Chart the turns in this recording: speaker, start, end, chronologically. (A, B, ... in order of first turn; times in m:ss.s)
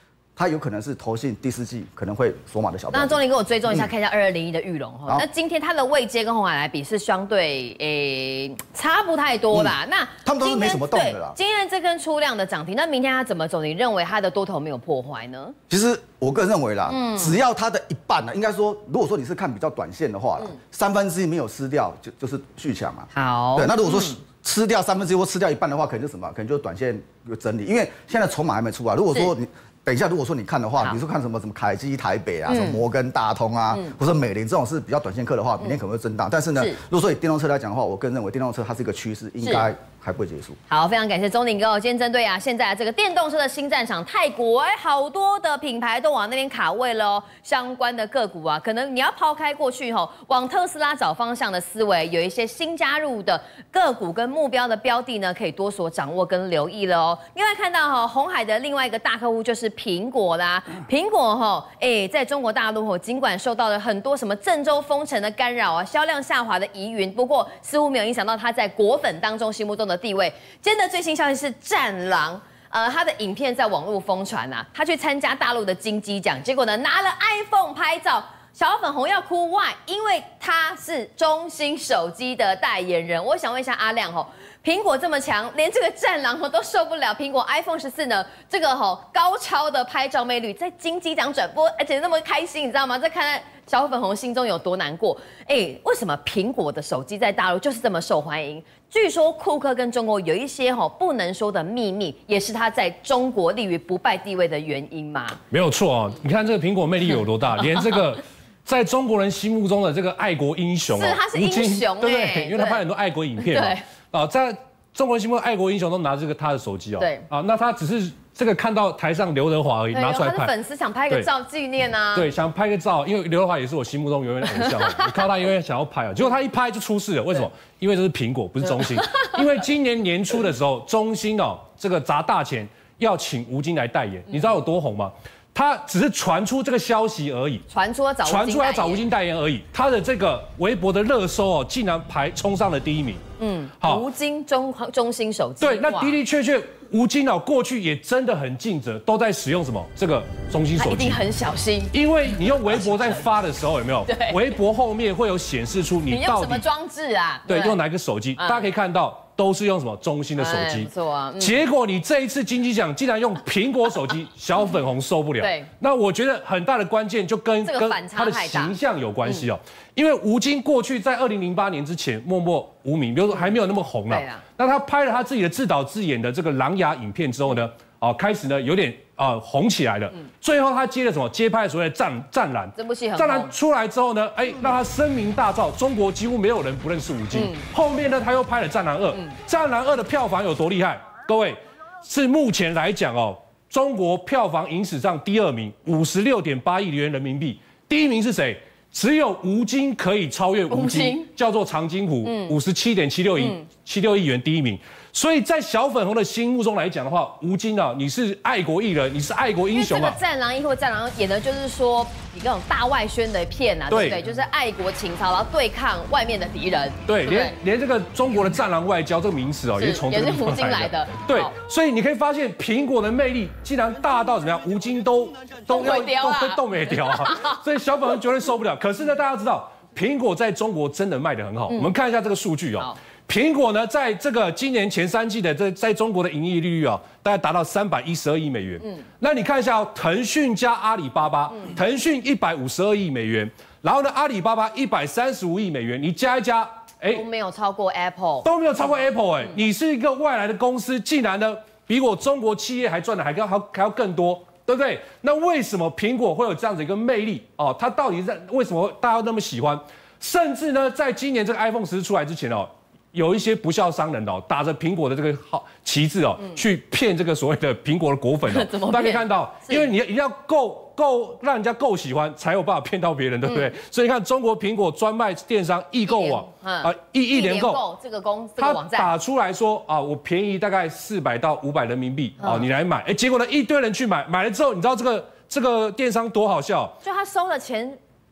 0:00.4-0:03.9 A
0:02.9-0:15.6 B
0:09.5-0:11.4 A
0:15.7-0:40.6 A
0:16.9-0:17.4 B
0:23.1-0:24.2 B
0:32.5-0:32.8 B
0:39.4-0:39.7 B
0:40.7-1:45.4 B
1:45.5-2:00.5 C
1:50.9-1:52.8 B
1:53.4-1:53.8 B
1:57.0-1:57.2 B
1:59.9-2:02.3 B
2:02.1-2:17.6 C
2:04.5-2:05.2 B
2:08.7-2:09.3 B
2:17.7-2:19.0 B
2:18.2-2:23.2 C
2:23.4-2:26.2 B
2:23.8-2:24.0 C
2:25.6-2:31.2 C
2:30.8-2:31.9 B
2:31.9-2:36.6 C
2:34.1-2:34.4 B
2:36.1-2:37.8 B
2:37.5-3:30.2 C
2:38.4-2:38.6 B
2:40.4-2:41.6 B
2:45.4-2:45.7 B
2:47.6-2:48.7 B
2:54.1-2:54.4 B
3:02.8-3:03.5 B
3:07.3-3:07.6 B
3:20.7-3:21.3 B
3:22.2-3:22.6 B
3:23.4-3:23.6 B
3:29.7-3:37.6 B
3:33.9-3:34.2 C
3:37.1-4:07.2 C
3:39.8-3:41.5 B
3:45.7-3:47.6 B
4:07.1-4:08.5 B
4:08.4-4:37.8 C
4:28.5-4:29.9 B
4:36.1-4:39.1 B
4:38.6-4:47.0 C
4:42.4-4:42.6 B
4:47.0-4:48.0 B